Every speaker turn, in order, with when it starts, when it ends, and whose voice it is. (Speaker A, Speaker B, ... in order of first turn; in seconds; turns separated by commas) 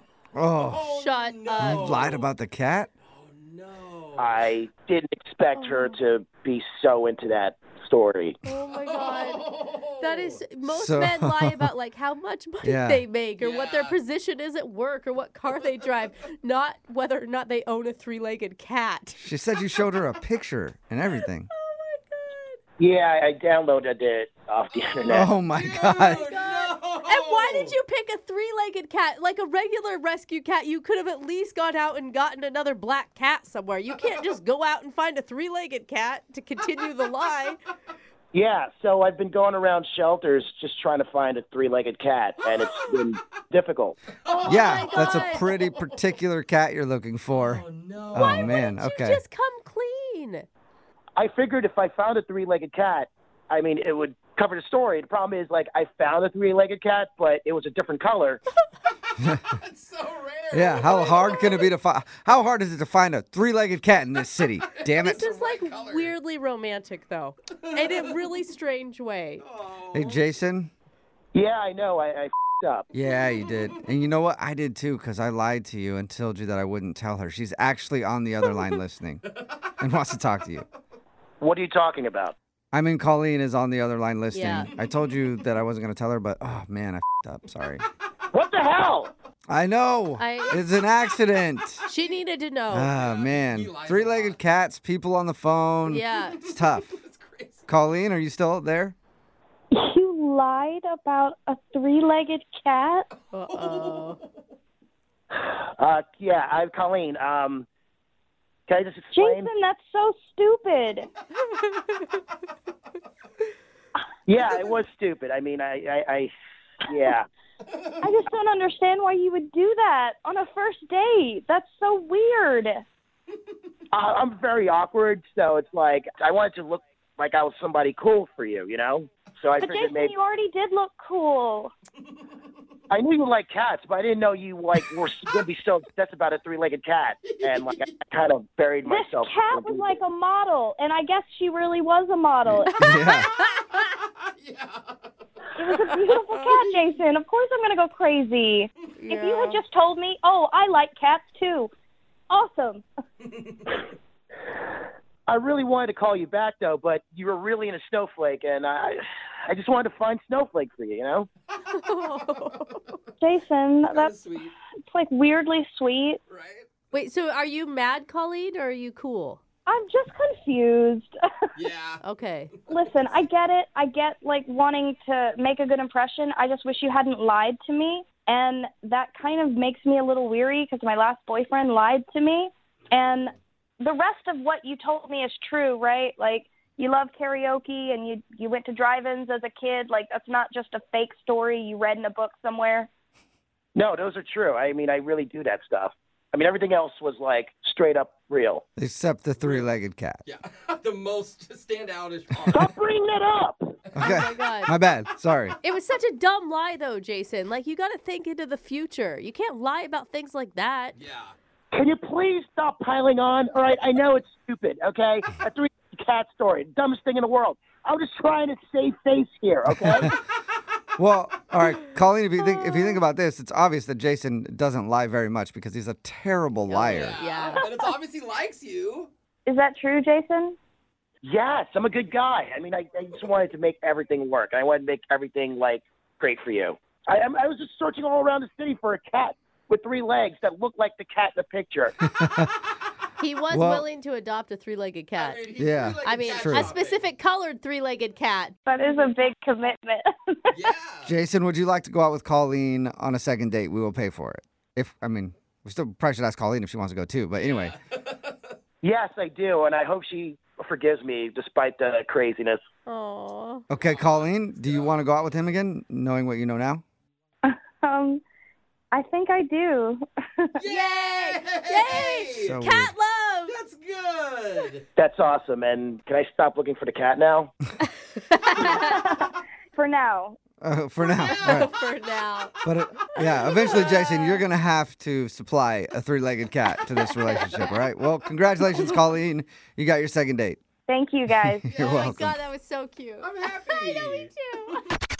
Speaker A: 0.3-0.9, Speaker B: 0.6-2.3, Speaker C: 0.9-2.0, Speaker A: 1.6-2.9, Speaker B: 3.0-4.5, Speaker D: 4.2-8.4, Speaker C: 5.5-6.0, Speaker C: 8.4-19.2, Speaker B: 8.7-10.4, Speaker A: 10.6-11.7, Speaker A: 12.6-13.0, Speaker B: 13.4-14.0, Speaker A: 19.2-21.5, Speaker C: 21.1-22.6, Speaker D: 22.8-25.3, Speaker B: 24.7-27.8, Speaker A: 25.1-26.3, Speaker C: 25.7-37.6, Speaker D: 38.3-44.0, Speaker B: 42.4-43.1, Speaker B: 44.2-45.8, Speaker C: 44.3-45.4, Speaker A: 44.5-49.2, Speaker B: 47.3-48.7, Speaker C: 48.1-50.5, Speaker D: 51.1-58.4, Speaker B: 59.2-61.6, Speaker A: 60.5-65.2, Speaker B: 64.4-66.1, Speaker C: 65.0-69.4, Speaker B: 67.6-68.1, Speaker B: 69.4-70.3, Speaker A: 69.9-70.7, Speaker D: 71.3-72.9, Speaker A: 72.9-79.2, Speaker B: 73.0-73.8, Speaker A: 79.8-80.7, Speaker D: 81.4-82.3, Speaker A: 82.7-87.8, Speaker C: 84.3-84.7, Speaker B: 84.8-85.2, Speaker D: 88.3-89.1, Speaker A: 89.5-91.8, Speaker C: 90.2-90.7, Speaker C: 91.8-92.9, Speaker A: 92.7-96.9, Speaker B: 92.9-94.4, Speaker C: 95.8-96.4, Speaker B: 96.1-97.7, Speaker A: 97.7-98.9, Speaker E: 99.7-103.1, Speaker B: 103.3-104.4, Speaker C: 103.3-104.2, Speaker D: 105.3-107.7, Speaker D: 108.7-109.5, Speaker E: 109.1-111.1, Speaker D: 114.3-117.2, Speaker B: 117.7-118.0, Speaker E: 118.0-122.8, Speaker D: 123.9-130.1, Speaker E: 129.5-131.7, Speaker D: 132.9-140.0, Speaker B: 137.2-138.0, Speaker E: 138.9-142.9, Speaker A: 142.8-143.3, Speaker C: 142.8-143.6, Speaker B: 143.7-145.1, Speaker E: 145.6-151.7, Speaker B: 145.9-146.7, Speaker C: 149.0-149.6, Speaker E: 152.3-152.8, Speaker B: 153.2-153.7, Speaker D: 155.3-161.3, Speaker C: 161.7-162.8, Speaker B: 162.1-163.1, Speaker E: 163.2-164.1, Speaker B: 163.8-164.6, Speaker E: 164.9-166.2, Speaker B: 166.3-166.7, Speaker C: 166.9-169.4, Speaker E: 169.7-171.2, Speaker B: 171.5-172.8, Speaker C: 172.0-172.5, Speaker E: 172.7-192.9, Speaker D: 193.7-198.6, Speaker A: 198.8-200.2, Speaker B: 199.4-199.7, Speaker B: 200.2-202.7, Speaker D: 202.5-203.8, Speaker A: 203.9-205.6, Speaker C: 204.0-204.7, Speaker C: 205.6-210.9, Speaker B: 210.9-211.3, Speaker D: 211.7-220.2, Speaker A: 219.7-220.1, Speaker A: 221.0-227.2, Speaker C: 226.7-227.7, Speaker B: 226.8-229.1, Speaker E: 229.4-230.6, Speaker D: 231.2-242.0, Speaker A: 242.1-242.5, Speaker C: 243.2-245.4, Speaker A: 243.5-243.8, Speaker B: 245.1-247.1, Speaker A: 245.6-246.7, Speaker C: 246.0-248.6, Speaker E: 248.7-250.6, Speaker B: 250.5-251.1, Speaker A: 251.0-257.7, Speaker B: 257.4-258.5, Speaker D: 258.8-262.6, Speaker C: 262.9-263.6, Speaker A: 263.7-266.8, Speaker B: 263.7-265.0, Speaker E: 267.4-268.2, Speaker E: 268.9-270.6, Speaker B: 270.6-272.6, Speaker C: 270.6-273.6, Speaker A: 272.4-272.9, Speaker B: 273.5-274.9, Speaker D: 274.9-277.5, Speaker C: 278.2-278.9, Speaker E: 278.6-280.4, Speaker A: 280.6-281.7, Speaker B: 281.1-281.9, Speaker C: 281.2-282.6, Speaker A: 282.6-290.6, Speaker C: 283.1-284.4, Speaker C: 287.1-287.8, Speaker C: 288.7-288.9, Speaker E: 290.9-291.9, Speaker A: 291.4-292.4, Speaker C: 291.7-294.8, Speaker B: 293.2-294.7